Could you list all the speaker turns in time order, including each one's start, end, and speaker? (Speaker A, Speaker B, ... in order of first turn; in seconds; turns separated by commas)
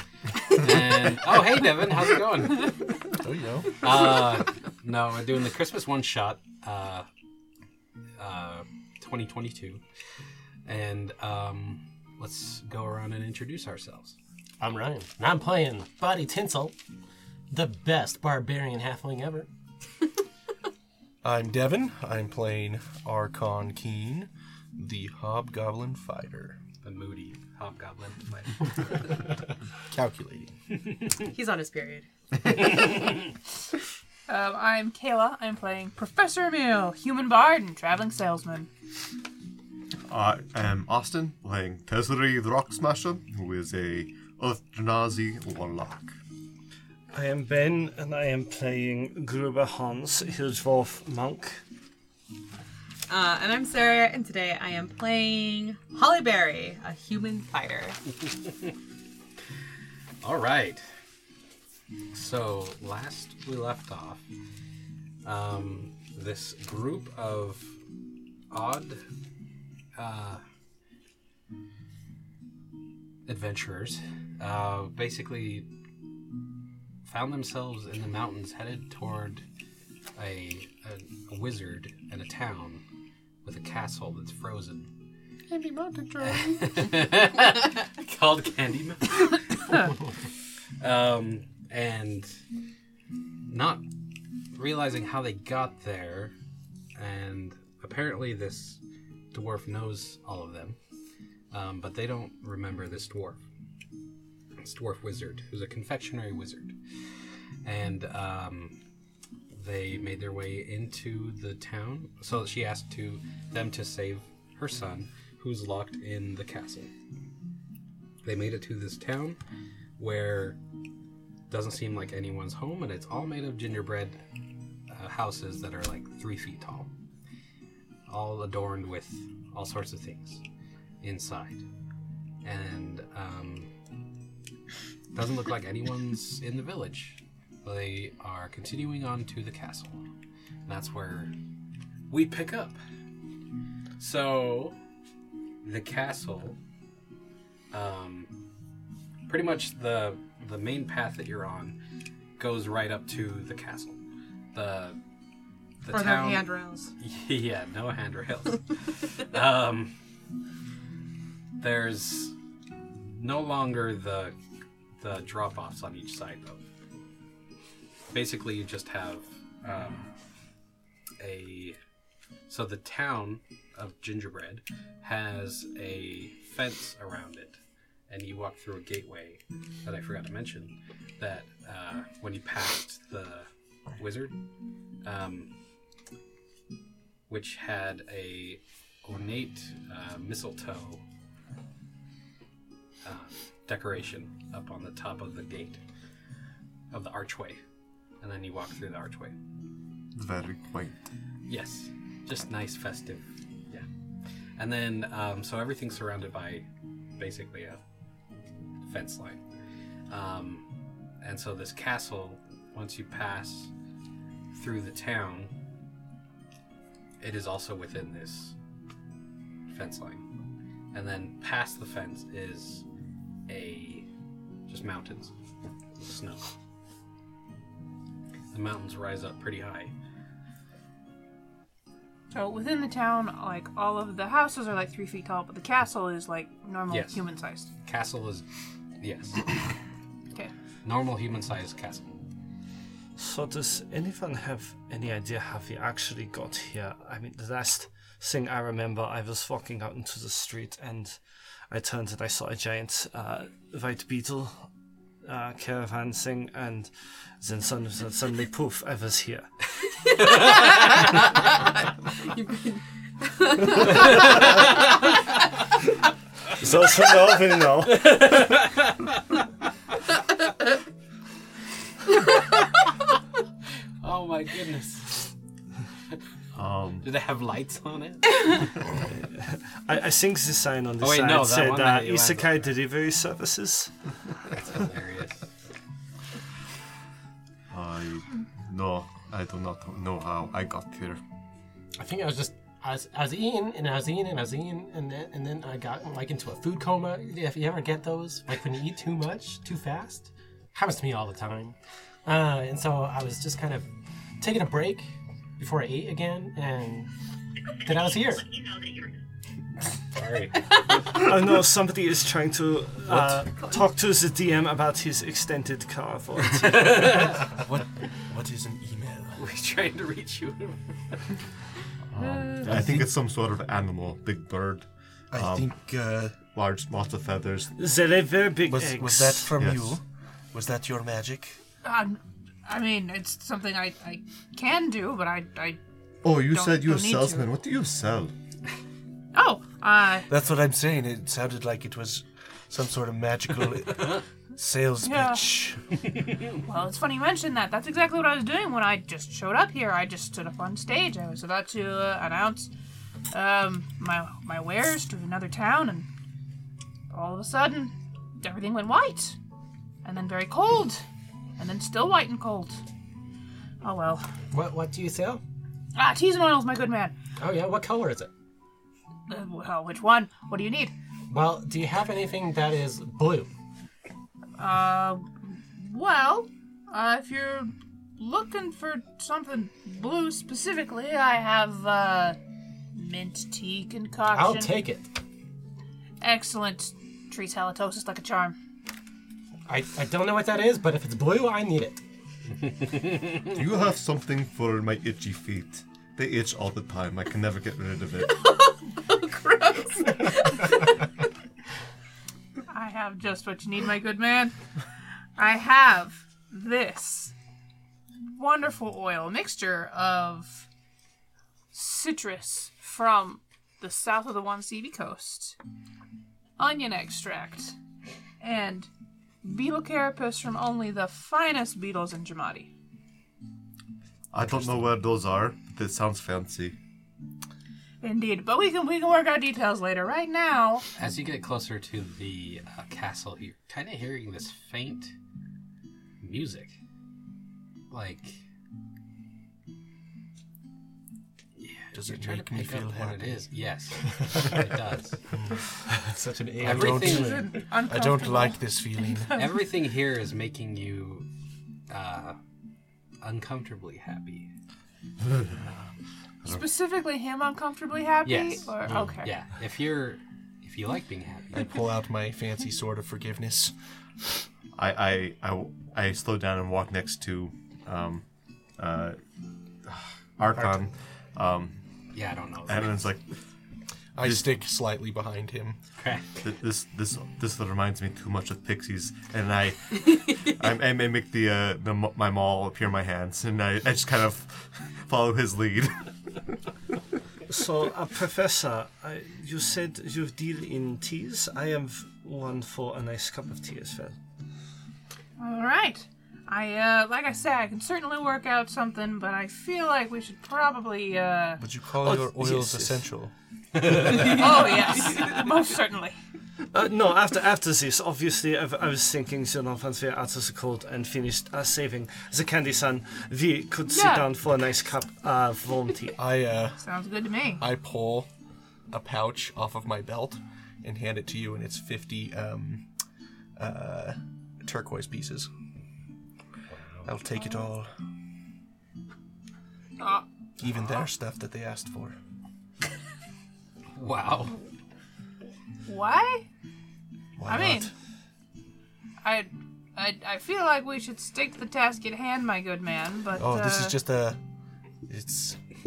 Speaker A: 0.5-2.9, Speaker B: 3.1-3.8, Speaker A: 3.8-7.1, Speaker A: 8.2-9.8, Speaker A: 10.7-14.2, Speaker C: 14.6-16.7, Speaker C: 17.5-19.5, Speaker B: 21.2-26.6, Speaker A: 26.8-29.1, Speaker B: 29.9-30.5, Speaker D: 31.2-32.1, Speaker E: 34.3-38.7, Speaker F: 40.1-46.1, Speaker G: 47.1-51.6, Speaker D: 53.1-58.0, Speaker A: 60.2-60.9, Speaker A: 62.1-64.2, Speaker A: 65.2-67.8, Speaker A: 68.5-69.0, Speaker A: 70.0-70.4, Speaker A: 73.3-75.7, Speaker A: 77.1-79.4, Speaker A: 80.2-82.8, Speaker A: 83.4-84.9, Speaker A: 86.2-89.9, Speaker A: 90.8-92.4, Speaker A: 93.5-93.8, Speaker A: 94.5-96.3, Speaker A: 97.0-98.8, Speaker A: 99.3-100.8, Speaker A: 101.5-103.4, Speaker A: 104.6-106.8, Speaker A: 107.6-108.8, Speaker A: 109.5-116.9, Speaker A: 118.2-119.4, Speaker A: 120.0-120.6, Speaker A: 121.5-124.2, Speaker A: 124.9-126.9, Speaker A: 128.1-130.4, Speaker A: 131.0-131.6, Speaker A: 132.4-133.7, Speaker A: 135.1-140.0, Speaker A: 140.7-141.3, Speaker A: 142.1-142.8, Speaker A: 144.0-144.8, Speaker A: 145.6-146.6, Speaker A: 147.7-148.3, Speaker A: 149.3-151.8, Speaker A: 152.4-154.0, Speaker A: 154.5-155.0, Speaker A: 155.8-159.9, Speaker D: 155.9-156.9, Speaker A: 161.6-162.3, Speaker A: 163.2-164.3, Speaker A: 165.0-166.6, Speaker A: 168.1-170.1, Speaker A: 171.2-171.8, Speaker A: 172.5-177.6, Speaker A: 178.1-184.3, Speaker A: 185.0-185.5, Speaker A: 187.3-191.0, Speaker A: 193.0-195.8, Speaker A: 196.9-197.6, Speaker A: 198.2-199.4, Speaker F: 200.2-200.9, Speaker A: 201.5-203.9, Speaker A: 204.6-206.7, Speaker A: 207.2-207.8, Speaker A: 208.8-209.4, Speaker A: 210.1-210.7, Speaker A: 211.2-213.7, Speaker A: 214.5-215.5, Speaker A: 217.2-218.6, Speaker A: 219.7-220.3, Speaker A: 220.9-222.8, Speaker A: 223.5-224.1, Speaker A: 224.7-225.3, Speaker A: 226.0-226.5, Speaker A: 228.5-229.9, Speaker E: 232.3-237.7, Speaker A: 236.9-237.2, Speaker A: 237.8-238.5, Speaker A: 239.0-239.5, Speaker A: 240.8-242.1, Speaker G: 243.2-251.2, Speaker G: 251.7-254.7, Speaker G: 255.2-259.5, Speaker D: 262.3-262.8, Speaker G: 263.8-264.6, Speaker G: 266.6-268.1, Speaker A: 268.1-269.1, Speaker A: 274.0-275.3, Speaker F: 276.6-277.1, Speaker A: 277.0-278.4, Speaker G: 279.1-283.9, Speaker A: 281.0-282.7, Speaker A: 284.5-285.5, Speaker F: 287.7-291.2, Speaker C: 292.0-301.8, Speaker C: 302.3-303.9, Speaker C: 304.4-305.1, Speaker C: 305.6-307.1, Speaker C: 307.8-308.7, Speaker A: 310.1-310.7, Speaker G: 311.0-317.4, Speaker A: 316.7-317.4, Speaker B: 317.6-319.4, Speaker A: 319.4-321.1, Speaker F: 322.2-325.7, Speaker E: 322.3-322.7, Speaker B: 322.6-323.1, Speaker B: 325.3-326.4, Speaker F: 326.5-327.7, Speaker G: 327.8-329.6, Speaker B: 328.6-330.0, Speaker F: 329.6-330.0, Speaker B: 330.5-331.6, Speaker E: 331.8-337.5, Speaker F: 336.2-338.3, Speaker E: 339.3-340.3, Speaker B: 340.3-345.8, Speaker E: 345.0-345.5, Speaker E: 346.6-352.7, Speaker E: 353.3-356.1, Speaker E: 357.1-359.4, Speaker E: 360.0-361.0, Speaker E: 361.6-362.8, Speaker E: 363.8-364.3, Speaker C: 364.5-365.4, Speaker E: 366.0-367.2, Speaker C: 367.4-368.3, Speaker E: 369.3-370.9, Speaker C: 371.3-373.5, Speaker E: 374.6-382.4, Speaker E: 382.9-384.8, Speaker C: 384.3-385.1, Speaker E: 386.2-388.6, Speaker C: 389.7-392.0, Speaker A: 392.7-393.5, Speaker F: 393.5-398.4, Speaker D: 398.9-400.7, Speaker E: 402.7-404.6, Speaker E: 405.4-407.3, Speaker E: 408.2-410.7, Speaker E: 411.7-415.6, Speaker E: 416.6-417.8, Speaker E: 418.4-418.9, Speaker E: 419.4-422.7, Speaker F: 424.3-426.8, Speaker A: 424.4-424.9, Speaker E: 428.0-430.9, Speaker A: 431.0-435.1, Speaker A: 436.2-436.8, Speaker A: 437.9-438.4, Speaker A: 441.6-445.2, Speaker B: 441.9-443.5, Speaker B: 445.3-445.7, Speaker C: 446.1-447.5, Speaker B: 446.6-449.4, Speaker A: 446.6-447.4, Speaker E: 447.0-449.7, Speaker A: 449.4-451.3, Speaker A: 451.9-452.4, Speaker A: 453.2-454.5, Speaker F: 455.3-455.6, Speaker E: 456.4-459.3, Speaker A: 458.2-461.7, Speaker B: 461.5-463.7, Speaker F: 464.8-468.2, Speaker F: 468.8-469.2, Speaker F: 469.9-471.8, Speaker A: 472.1-473.0, Speaker F: 472.7-473.3, Speaker B: 474.1-475.8, Speaker F: 474.2-474.5, Speaker A: 476.0-476.3, Speaker F: 476.4-486.1, Speaker G: 487.5-494.2, Speaker E: 495.4-501.6, Speaker B: 501.6-503.3, Speaker G: 502.0-503.1, Speaker G: 504.1-504.7, Speaker E: 504.1-506.2, Speaker A: 504.1-504.4, Speaker G: 506.7-516.2, Speaker E: 513.9-514.3, Speaker B: 516.2-516.8, Speaker E: 516.8-517.6, Speaker B: 517.6-518.3, Speaker B: 518.9-522.9, Speaker B: 523.6-525.5, Speaker B: 527.0-527.9, Speaker E: 530.0-530.2, Speaker B: 530.6-532.2, Speaker A: 534.0-534.6, Speaker E: 535.9-536.5, Speaker B: 537.4-537.9, Speaker E: 537.5-537.9, Speaker E: 539.2-544.0, Speaker B: 543.4-544.4, Speaker B: 545.1-545.6